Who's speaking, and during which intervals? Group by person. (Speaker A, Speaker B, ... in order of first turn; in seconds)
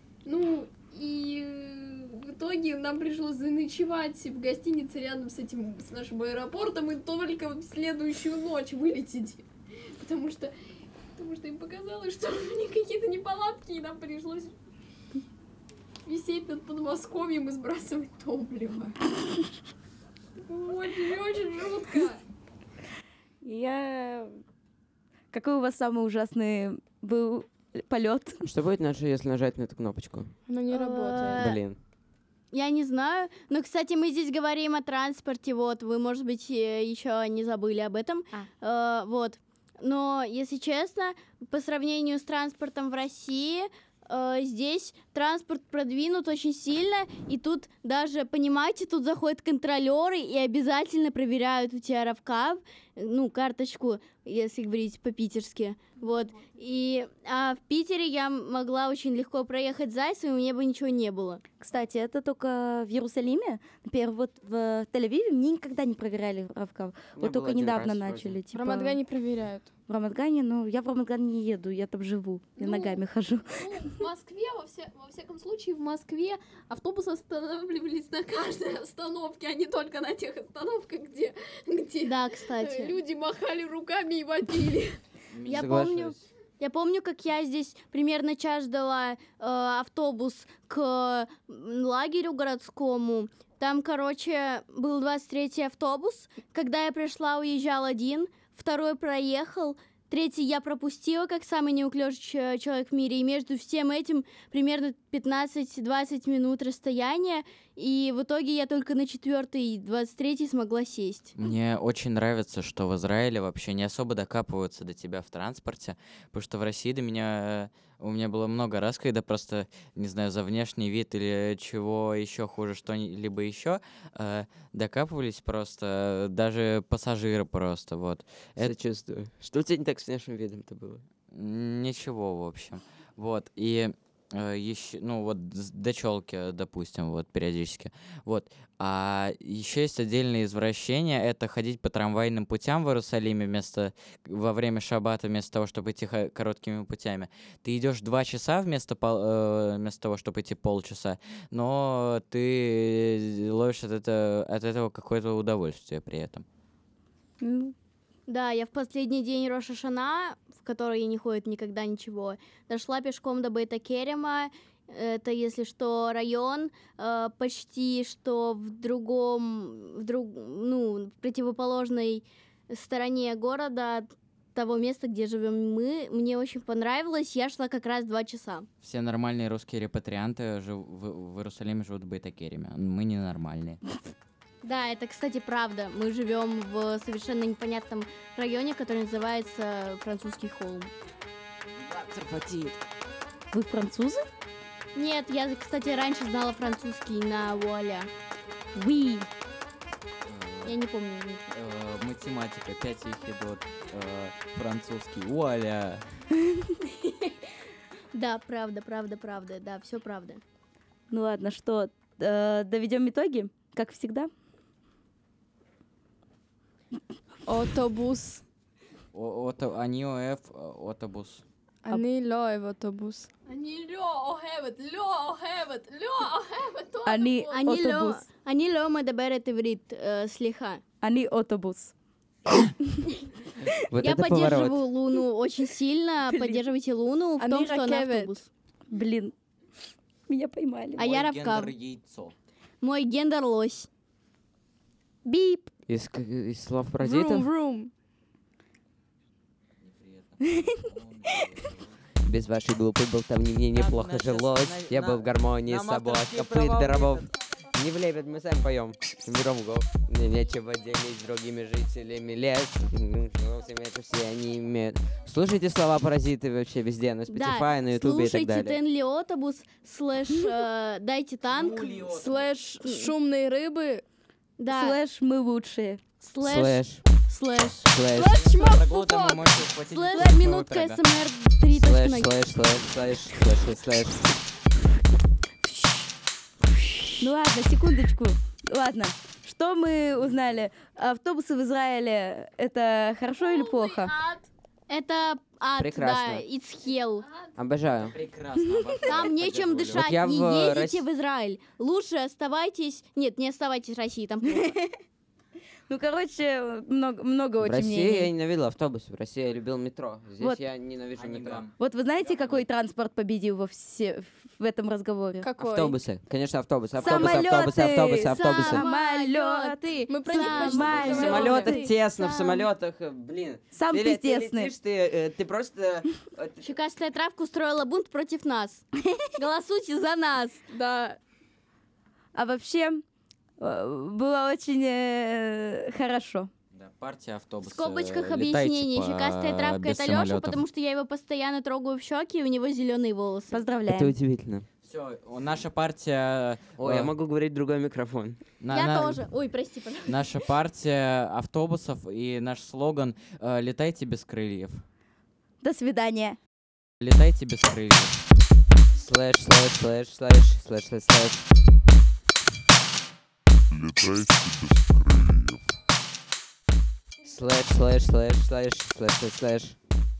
Speaker A: 0.2-9.4, 10.0-10.5, 11.1-14.5, 16.0-18.9, 20.4-22.2, 72.6-85.0, 223.4-227.6, 278.8-279.1, 293.4-294.5, 296.9-297.6
Speaker B: 23.4-24.4, 25.3-28.5, 61.6-69.0, 69.9-74.0, 157.4-157.7, 193.5-194.2, 198.7-199.3, 206.4-206.7, 211.1-214.3, 227.0-228.2, 231.0-231.9, 236.3-236.6, 238.9-239.3, 240.3-241.0, 245.2-245.7, 250.4-251.4, 274.7-276.0, 287.2-294.1, 298.6-299.0, 304.5-305.0, 305.9-308.3, 311.8-315.5, 316.9-321.8, 323.7-324.7, 332.3-333.0, 333.6-336.5, 343.5-344.1, 355.6-356.4
Speaker C: 28.4-30.4, 31.2-31.8, 67.2-68.4, 85.4-86.2, 128.6-131.0, 233.8-234.8, 245.9-247.5, 252.2-268.8, 276.4-277.0, 277.9-278.4, 281.7-284.3, 295.8-296.4, 297.6-298.1, 299.9-301.0, 307.6-311.6, 315.6-318.8, 321.1-326.6, 343.9-344.6, 346.8-348.4, 358.9-361.5, 367.2-369.8
Speaker D: 30.5-31.5, 68.5-69.7, 217.4-218.4, 221.8-223.3, 237.4-238.4, 247.0-247.9, 272.1-274.0, 278.1-278.7, 315.4-316.0, 320.1-321.9, 330.7-331.2
Speaker E: 30.7-31.6, 32.5-61.4, 82.0-83.0, 85.5-111.3, 158.3-178.7, 184.6-190.9, 194.9-198.1, 200.6-201.6, 208.1-210.4, 227.5-230.8, 234.0-238.4, 241.0-241.7, 242.8-243.9, 267.3-272.2, 272.8-273.1, 274.6-275.0, 276.2-279.1, 279.8-282.4, 285.6-286.0, 294.9-297.2, 299.1-304.8, 318.3-322.7, 326.6-328.8, 329.4-330.7, 337.6-343.6, 348.7-350.3
Speaker F: 85.3-85.9, 111.4-128.7, 131.3-156.4, 178.8-183.8, 191.7-192.8, 200.2-200.8, 201.5-206.0, 219.1-221.4, 241.0-242.3, 249.8-252.0, 253.7-257.3, 271.5-272.5, 278.1-281.0, 298.0-300.0, 311.1-312.6, 320.8-321.4, 336.7-340.6, 344.8-347.1, 348.6-349.3, 350.1-354.8, 357.0-358.2
Speaker G: 363.7-365.7